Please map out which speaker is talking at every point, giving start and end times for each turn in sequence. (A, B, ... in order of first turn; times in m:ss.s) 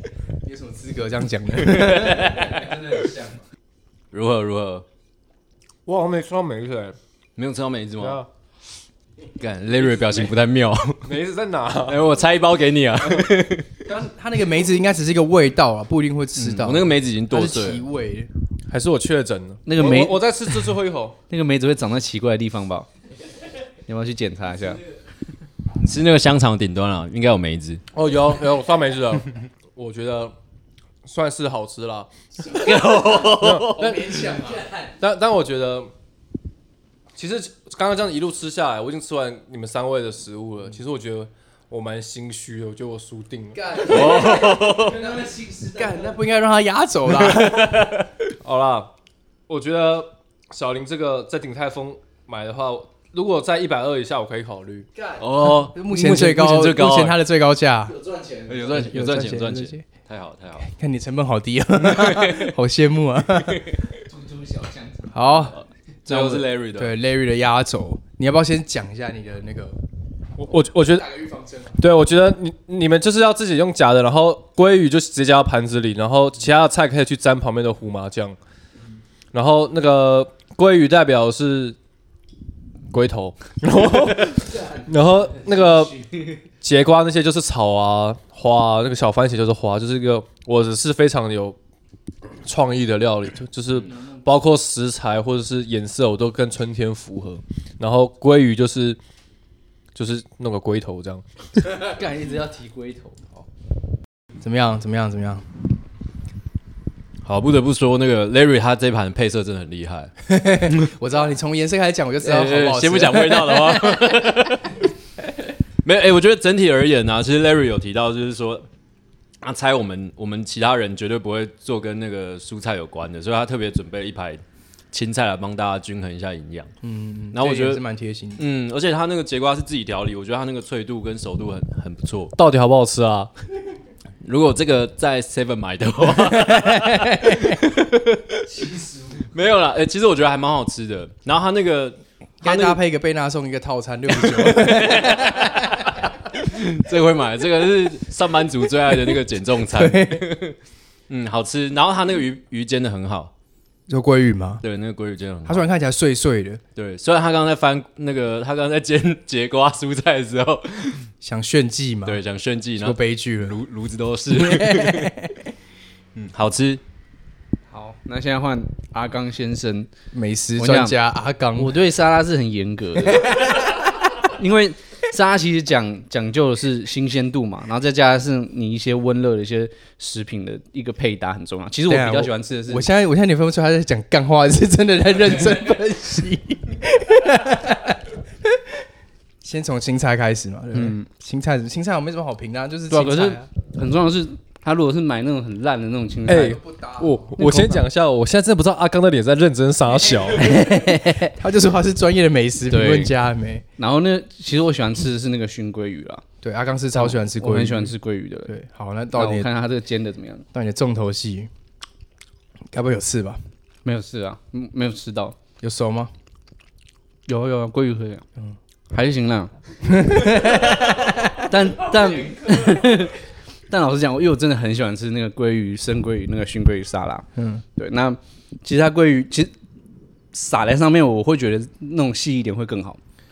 0:00.4-0:02.5 A
0:01.7-0:02.7 B
0:02.5-0:03.2 C
0:04.1-0:04.8 B
0:05.8-0:07.0 D
0:07.4-0:08.2 B
0:08.0-0:08.3 D
0:09.4-0:11.1 B
0:11.0-0:12.1 D
0:11.9-0:13.9 B
0:13.8-0:18.3 A
0:16.4-0:17.8 B
0:18.7-0:21.2 D
0:19.6-0:20.3 C
0:21.3-0:22.9 C
0:23.9-0:24.8 C
0:25.8-0:27.8 B
0:27.9-0:30.3 D
0:31.0-0:32.6 D
0:32.6-0:33.7 B
0:32.9-0:33.2 C
0:32.9-0:34.9 A
0:33.2-0:34.2 D
0:35.0-0:35.9 D
0:37.2-0:43.8 D
0:43.6-0:47.8 A
0:43.8-0:45.1 B
0:44.7-0:45.9 C
0:47.2-0:48.0 B
0:48.4-0:48.9 D
0:49.5-0:54.9 D
0:55.0-0:58.0 A
0:55.2-0:57.2 B
0:57.9-0:58.7 C
0:58.5-1:00.7 B
0:58.7-0:59.8 A
1:00.6-1:03.6 A
1:01.8-1:02.5 B
1:03.5-1:03.8 B
1:04.1-1:05.2 C
1:05.1-1:05.5 A
1:06.0-1:07.0 B
1:06.1-1:09.8 A
1:10.4-1:11.1 D
1:10.8-1:11.8 A
1:11.8-1:18.4 D
1:19.3-1:21.8 D
1:22.9-1:26.0 D
1:26.6-1:31.6 D
1:32.4-1:39.0 D
1:39.9-1:41.2 D
1:41.6-1:43.5 C
1:44.4-1:45.4 A
1:47.2-1:50.1 B
1:50.2-1:54.5 A
1:52.2-1:54.9 B
1:55.8-1:58.7 B
1:59.4-2:06.7 B
2:06.8-2:08.4 A
2:07.3-2:07.8 B
2:08.4-2:12.3 B
2:12.4-2:13.3 D
2:14.2-2:22.8 B
2:16.2-2:17.6 A
2:22.4-2:26.0 A
2:24.1-2:30.6 B
2:29.6-2:30.3 A
2:31.1-2:33.3 B
2:33.9-2:34.6 A
2:34.6-2:35.7 B
2:35.4-2:36.6 A
2:36.8-2:41.1 B
2:41.2-2:42.2 A
2:42.0-2:45.1 B
2:42.8-2:43.6 A
2:44.3-2:45.4 A
2:46.2-2:46.8 B
2:47.7-2:49.9 C
2:50.1-2:51.8 A
2:50.6-2:51.0 C
2:51.6-3:02.8 C
3:01.9-3:08.6 A
3:09.4-3:13.5 A
3:10.7-3:11.1 C
3:12.9-3:16.6 C
3:16.2-3:20.6 D
3:16.3-3:17.5 A
3:17.4-3:17.8 C
3:20.4-3:21.3 C
3:21.2-3:23.6 A
3:22.7-3:23.1 C
3:23.8-3:26.2 C
3:26.4-3:27.9 A
3:26.9-3:28.5 C
3:28.5-3:29.5 A
3:29.1-3:30.4 C
3:30.5-3:31.5 A
3:32.7-3:33.4 A
3:33.8-3:35.4 C
3:35.6-3:36.1 A
3:37.3-3:38.2 C
3:38.9-3:39.5 C
3:39.9-3:41.5 A
3:41.2-3:49.5 C
3:47.4-3:47.6 A
3:50.3-3:53.0 C